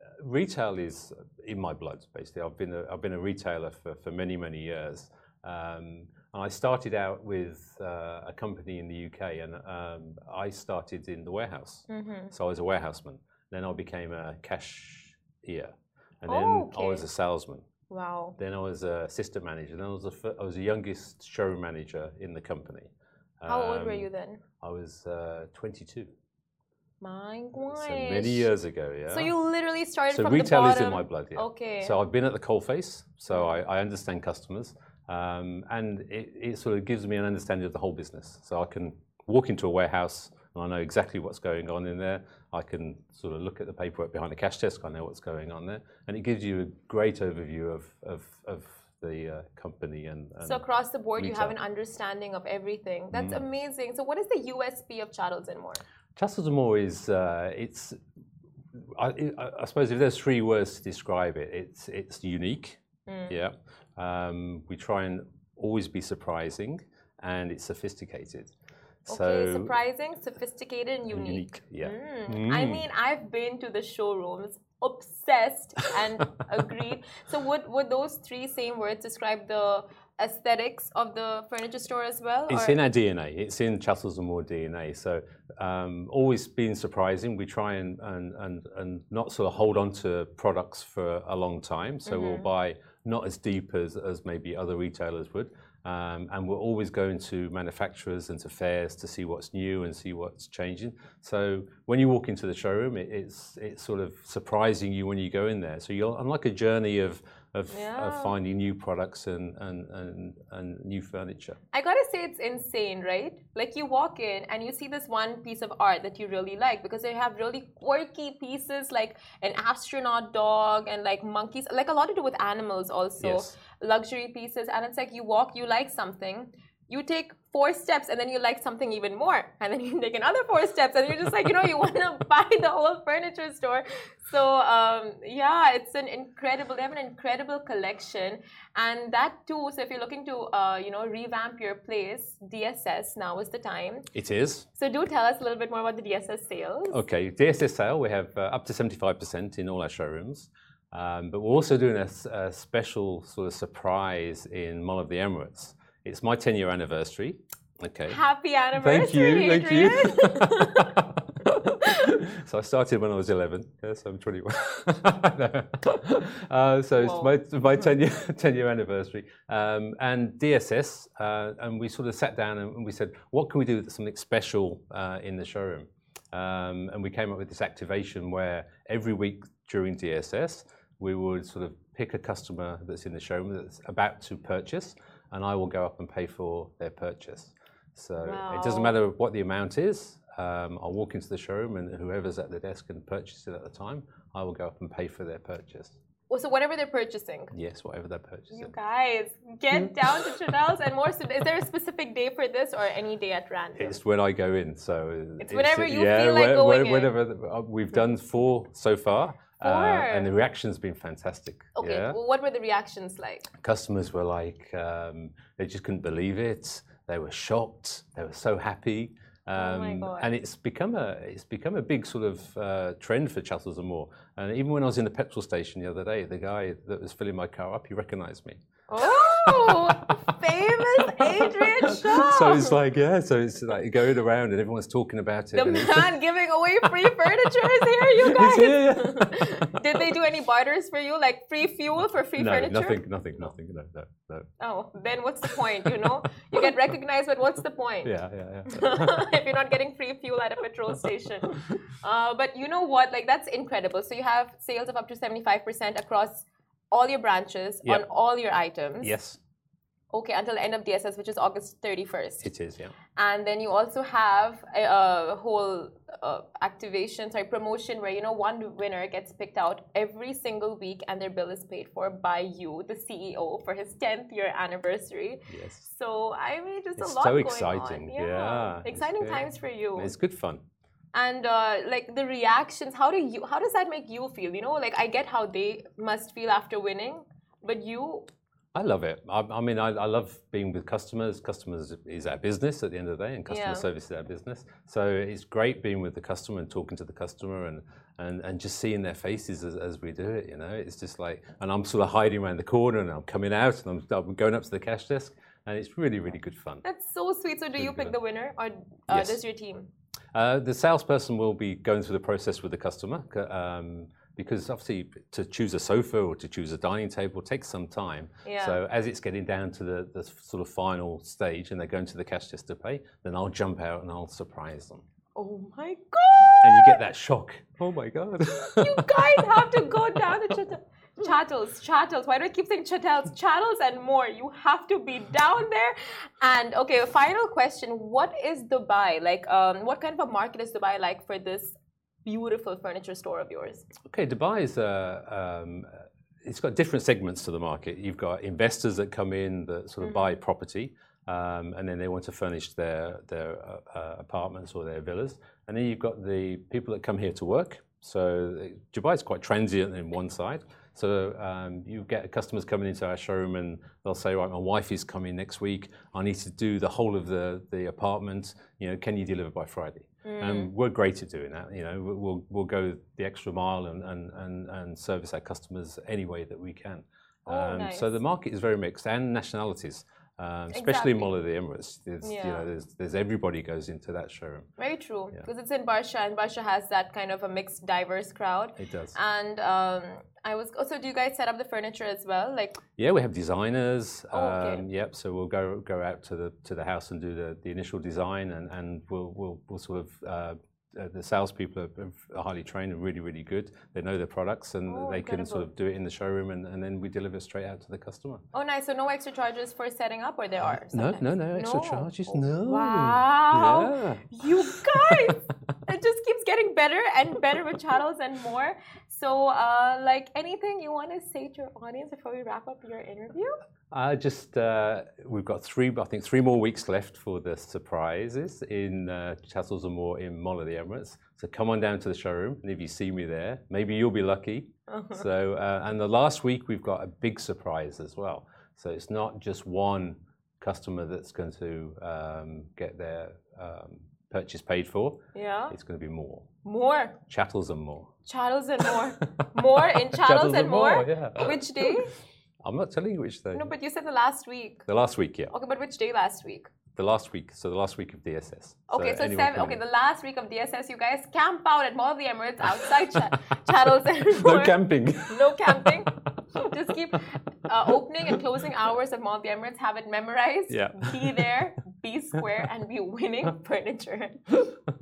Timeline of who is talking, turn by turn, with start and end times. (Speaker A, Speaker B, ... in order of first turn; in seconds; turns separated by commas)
Speaker A: 0.2-17.6, Speaker B: 11.9-12.3, Speaker B: 16.3-17.0, Speaker B: 17.9-18.4, Speaker A: 18.4-22.9, Speaker A: 23.4-24.1, Speaker B: 23.5-24.4, Speaker A: 24.6-26.1, Speaker B: 27.0-28.5, Speaker A: 27.7-29.3, Speaker B: 29.1-32.0, Speaker A: 30.1-50.6, Speaker B: 33.3-33.6, Speaker B: 50.4-55.8, Speaker A: 51.2-51.5, Speaker A: 53.1-53.4, Speaker A: 56.1-58.0, Speaker A: 58.8-68.5, Speaker B: 63.1-63.4, Speaker A: 69.1-69.7, Speaker B: 69.1-82.8, Speaker A: 71.1-72.8, Speaker A: 82.5-111.6, Speaker B: 92.1-92.5, Speaker B: 107.7-108.4, Speaker B: 111.7-144.1, Speaker A: 123.2-123.5, Speaker A: 144.1-144.7, Speaker B: 144.8-147.0, Speaker A: 146.9-158.2, Speaker B: 158.1-161.0, Speaker A: 158.8-196.0, Speaker B: 167.0-167.3, Speaker B: 188.2-189.0, Speaker B: 196.3-197.5, Speaker A: 197.5-198.7, Speaker B: 198.5-204.0, Speaker A: 203.8-212.2, Speaker B: 205.4-207.1, Speaker B: 209.6-210.3, Speaker B: 211.8-213.5, Speaker A: 213.6-230.3, Speaker B: 219.6-220.3, Speaker B: 228.9-232.8, Speaker A: 231.1-236.2, Speaker B: 235.5-243.5, Speaker A: 238.2-239.8, Speaker A: 242.4-244.5, Speaker B: 244.6-248.1, Speaker A: 248.1-249.3, Speaker B: 248.7-259.1, Speaker A: 259.0-259.4, Speaker B: 260.1-262.5, Speaker A: 262.4-262.9, Speaker B: 263.1-280.1, Speaker A: 275.5-275.9, Speaker A: 277.0-279.4, Speaker A: 280.0-280.6, Speaker B: 281.1-288.3, Speaker A: 288.8-306.8, Speaker B: 293.5-293.9, Speaker B: 306.8-309.9, Speaker A: 307.8-308.1, Speaker A: 309.1-309.4, Speaker A: 310.3-325.0, Speaker B: 318.4-318.8, Speaker B: 325.4-327.0, Speaker A: 326.6-329.7, Speaker B: 328.7-343.9, Speaker A: 344.1-384.7, Speaker B: 350.0-350.3, Speaker B: 370.2-370.7, Speaker B: 377.5-378.2, Speaker B: 380.7-381.3, Speaker B: 382.2-382.7, Speaker B: 384.8-392.8, Speaker A: 388.8-389.1, Speaker A: 393.0-408.4, Speaker B: 394.3-394.9, Speaker B: 404.9-405.7, Speaker B: 408.5-423.6, Speaker A: 410.9-415.4, Speaker A: 423.9-446.5, Speaker B: 434.9-435.2, Speaker B: 445.3-445.8, Speaker B: 446.6-447.2, Speaker A: 447.3-448.1, Speaker B: 448.3-452.1, Speaker A: 449.4-452.0, Speaker A: 452.6-453.7, Speaker B: 453.5-454.9, Speaker A: 454.9-455.5, Speaker B: 455.5-456.7, Speaker A: 456.9-459.8, Speaker B: 458.9-464.8, Speaker A: 464.3-466.6, Speaker B: 465.3-474.4, Speaker A: 470.7-471.5